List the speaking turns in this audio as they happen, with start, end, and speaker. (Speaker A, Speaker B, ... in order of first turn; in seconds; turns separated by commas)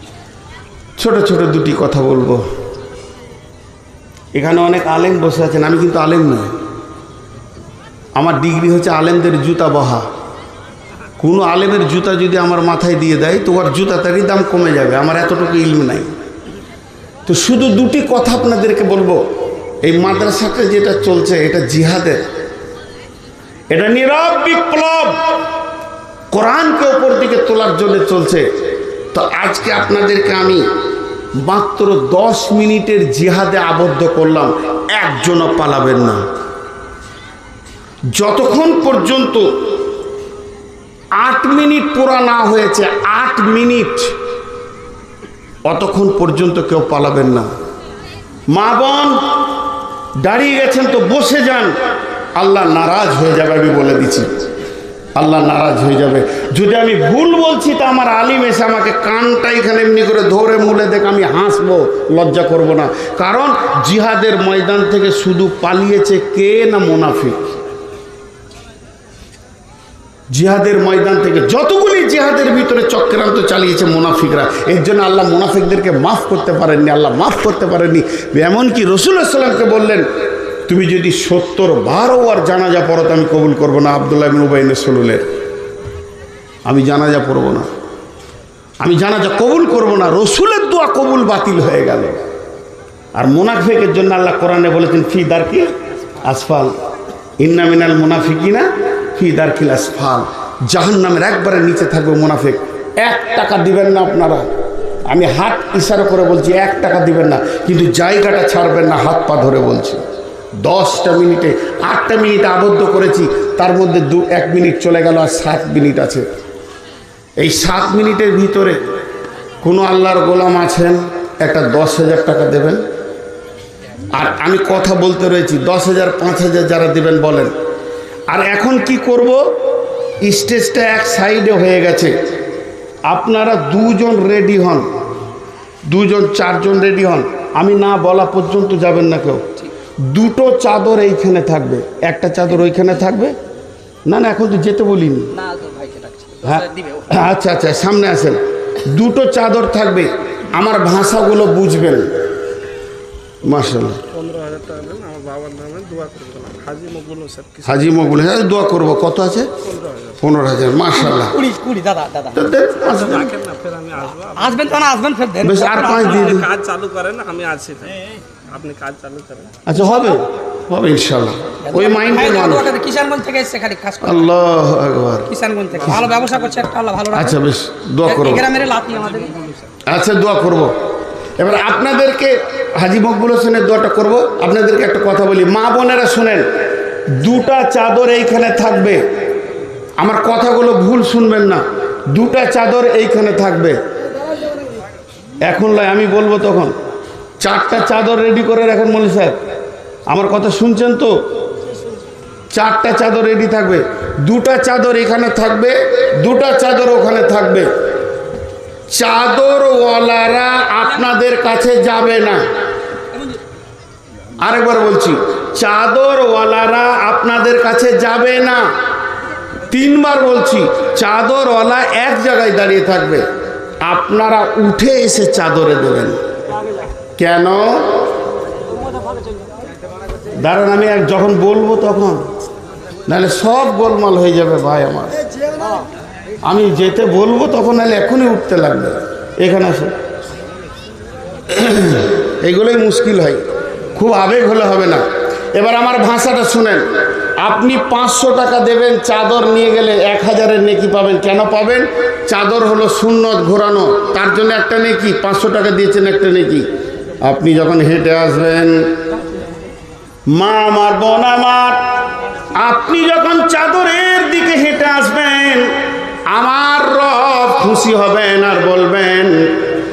Speaker A: 1.0-2.5, Speaker A: 4.3-6.5, Speaker A: 8.2-10.1, Speaker A: 11.2-16.1, Speaker A: 17.3-19.2, Speaker A: 19.8-22.2, Speaker A: 23.7-25.4, Speaker A: 26.3-28.5, Speaker A: 29.1-30.7, Speaker A: 31.4-36.2, Speaker A: 38.1-39.6, Speaker A: 41.2-44.1, Speaker A: 45.6-47.5, Speaker A: 48.5-49.2, Speaker A: 50.2-51.8, Speaker A: 52.3-54.4, Speaker A: 55.1-67.5, Speaker A: 70.3-80.1, Speaker A: 80.7-85.3, Speaker A: 86.7-87.7, Speaker A: 88.8-92.2, Speaker A: 93.2-96.8, Speaker A: 97.4-104.5, Speaker A: 105.1-110.0, Speaker A: 110.6-116.3, Speaker A: 117.4-118.8, Speaker A: 119.6-122.8, Speaker A: 124.1-127.5, Speaker A: 128.3-129.6, Speaker A: 130.2-132.2, Speaker A: 133.1-134.9, Speaker A: 135.9-139.5, Speaker A: 140.0-143.3, Speaker A: 144.1-145.3, Speaker B: 145.3-147.2, Speaker A: 146.4-152.1, Speaker A: 153.4-154.0, Speaker C: 154.0-158.5, Speaker A: 157.7-159.5, Speaker C: 159.6-160.2, Speaker A: 160.2-161.4, Speaker B: 161.0-162.4, Speaker A: 162.3-163.3, Speaker C: 162.7-164.8, Speaker B: 164.4-166.3, Speaker A: 165.4-166.4, Speaker C: 165.7-169.6, Speaker A: 169.7-172.7, Speaker B: 169.9-170.1, Speaker B: 171.7-174.3, Speaker A: 174.0-175.3, Speaker B: 175.3-177.4, Speaker C: 175.9-176.4, Speaker A: 177.1-178.5, Speaker B: 178.0-179.4, Speaker C: 178.9-179.5, Speaker A: 179.8-180.7, Speaker A: 181.4-186.5, Speaker A: 187.1-189.0, Speaker A: 190.0-193.8, Speaker A: 195.4-196.7, Speaker A: 197.4-199.4, Speaker A: 200.1-201.2, Speaker A: 202.5-207.7, Speaker A: 208.9-212.4, Speaker A: 214.4-218.7, Speaker A: 219.7-223.2, Speaker A: 223.8-226.2, Speaker A: 227.2-227.9, Speaker A: 230.4-232.3, Speaker A: 233.1-235.1, Speaker A: 236.4-239.9, Speaker A: 241.5-243.4, Speaker A: 243.9-246.9, Speaker A: 247.4-256.7, Speaker A: 257.2-259.0, Speaker A: 260.3-261.9, Speaker A: 262.6-265.7, Speaker A: 266.3-269.6